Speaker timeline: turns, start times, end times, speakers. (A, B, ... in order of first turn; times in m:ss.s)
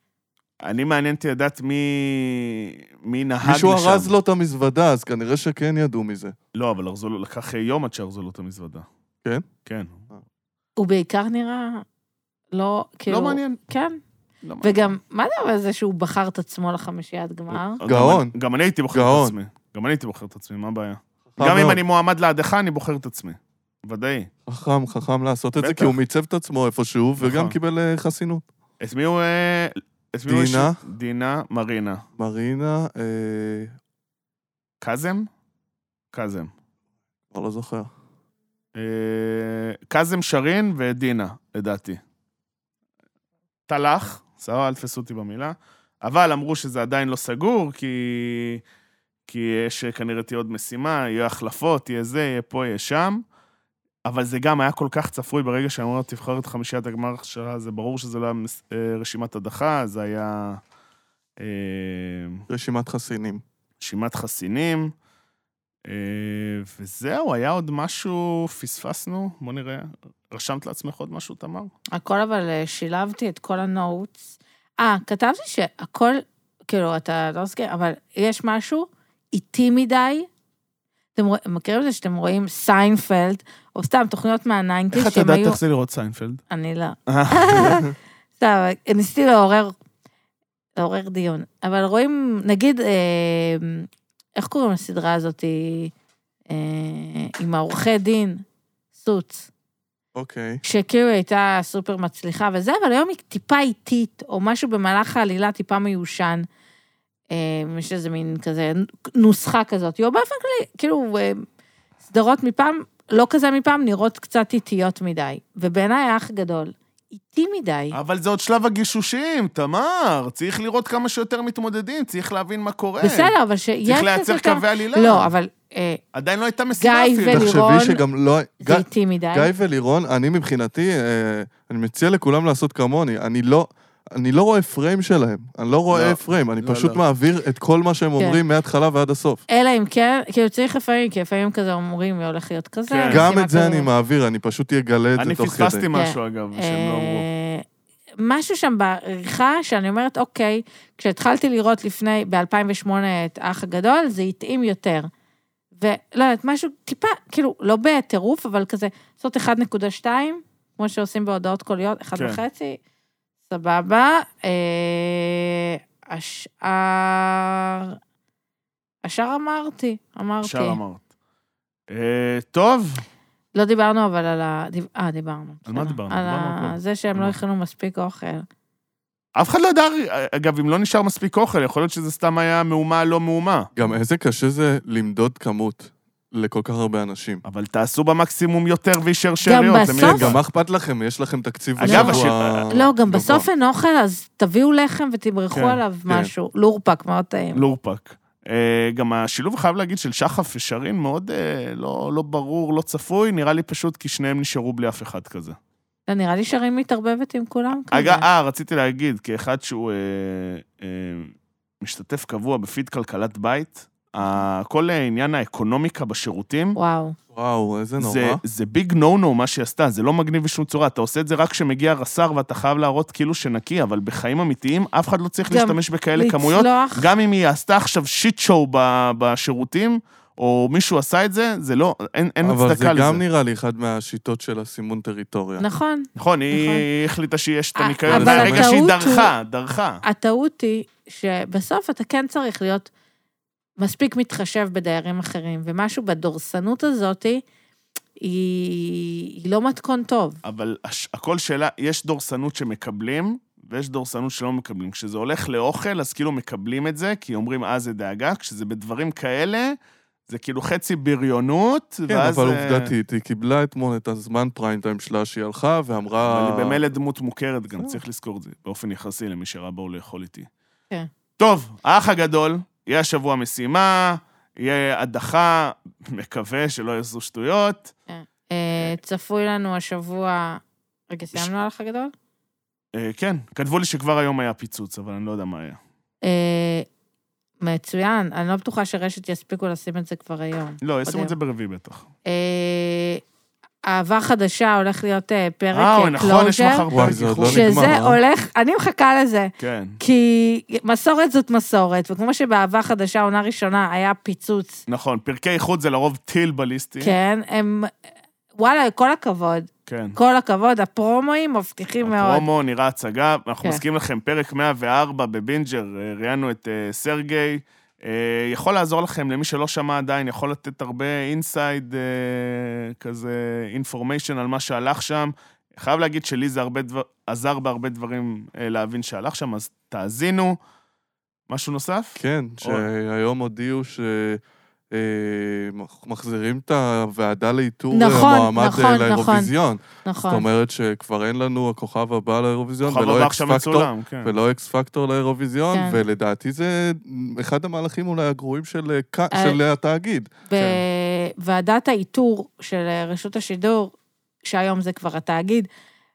0:00.6-0:04.1 A
0:03.4-0:06.4 B
0:06.5-0:08.9 A
0:09.7-0:10.0 A
0:10.8-0:11.8 C
0:12.5-0:14.0 C
0:13.1-0:13.6 A
0:14.4-0:14.9 A
0:14.6-0:17.8 C
0:17.5-0:24.3 A
0:17.9-0:18.3 B
0:18.9-0:19.4 B
0:21.4-0:21.8 B
0:24.5-0:28.4 B
0:25.6-0:26.0 A
0:27.2-0:27.6 A
0:28.8-0:32.0 A
0:30.3-0:30.8 B
0:32.2-0:33.8 B
0:34.8-0:35.3 A
0:36.1-0:36.5 A
0:37.3-0:37.9 B
0:38.8-0:42.0 A
0:43.7-0:48.6 A
0:49.3-0:53.2 A
0:54.1-1:00.6 A
1:01.4-1:02.4 A
1:02.5-1:03.4 B
1:03.8-1:04.9 A
1:05.9-1:11.7 A
1:11.9-1:20.3 C
1:21.2-1:25.6 C
1:24.9-1:26.4 A
1:26.5-1:29.7 C
1:27.1-1:27.8 A
1:30.8-1:35.9 C
1:36.5-1:38.4 C
1:39.0-1:39.5 C
1:40.2-1:40.6 B
1:40.6-1:46.5 C
1:47.3-1:51.4 C
1:52.0-1:58.0 C
1:57.9-2:03.3 A
2:03.0-2:06.0 C
2:03.8-2:05.3 A
2:06.1-2:07.6 A
2:06.8-2:08.0 C
2:07.3-2:19.4 B
2:08.6-2:09.5 C
2:15.9-2:17.0 A
2:19.5-2:23.9 C
2:22.9-2:23.2 A
2:23.1-2:25.8 B
2:25.2-2:27.2 A
2:25.9-2:27.6 C
2:28.2-2:35.1 C
2:35.8-2:42.8 C
2:42.2-2:42.4 A
2:43.5-2:48.0 C
2:49.0-2:50.8 C
2:50.4-2:51.0 A
2:51.9-2:53.0 A
2:53.6-2:58.5 C
2:55.7-2:57.4 A
2:59.4-3:03.7 A
3:03.8-3:07.4 B
3:07.4-3:10.4 A
3:09.4-3:10.3 C
3:10.0-3:13.5 B
3:11.8-3:12.8 A
3:11.8-3:17.6 C
3:15.5-3:15.8 A
3:17.5-3:25.6 A
3:26.1-3:28.3 C
3:27.9-3:36.8 A
3:36.8-3:37.2 C
3:37.3-3:38.4 B
3:38.0-3:53.2 A
3:45.4-3:47.1 C
3:52.4-3:55.6 B
3:55.6-3:56.9 C
3:56.2-4:00.0 A
3:57.8-3:59.3 C
3:58.1-3:58.8 B
4:00.0-4:02.9 C
4:03.8-4:07.4 C
4:08.2-4:10.4 C
4:10.4-4:19.8 A
4:20.3-4:22.9 A
4:22.1-4:26.8 B
4:26.2-4:30.5 A
4:31.4-4:37.9 A
4:38.1-4:42.1 C
4:43.0-4:45.8 A
4:46.2-4:46.9 C
4:47.6-4:51.3 C
4:50.8-4:52.1 A
4:52.3-4:53.2 C
4:53.9-4:56.9 C
4:55.7-4:58.0 A
4:56.9-4:58.2 B
4:57.5-5:04.8 C
4:59.6-5:00.0 A
5:04.9-5:07.2 A
5:07.0-5:07.9 C
5:08.6-5:12.4 C
5:09.9-5:10.2 A
5:12.0-5:30.6 A
5:31.5-5:32.9 A
5:32.2-5:50.8 B
5:37.9-5:39.5 C
5:40.0-5:40.5 C
5:42.8-5:44.4 A
5:45.7-5:46.0 C
5:49.3-5:49.6 C
5:50.5-5:55.7 C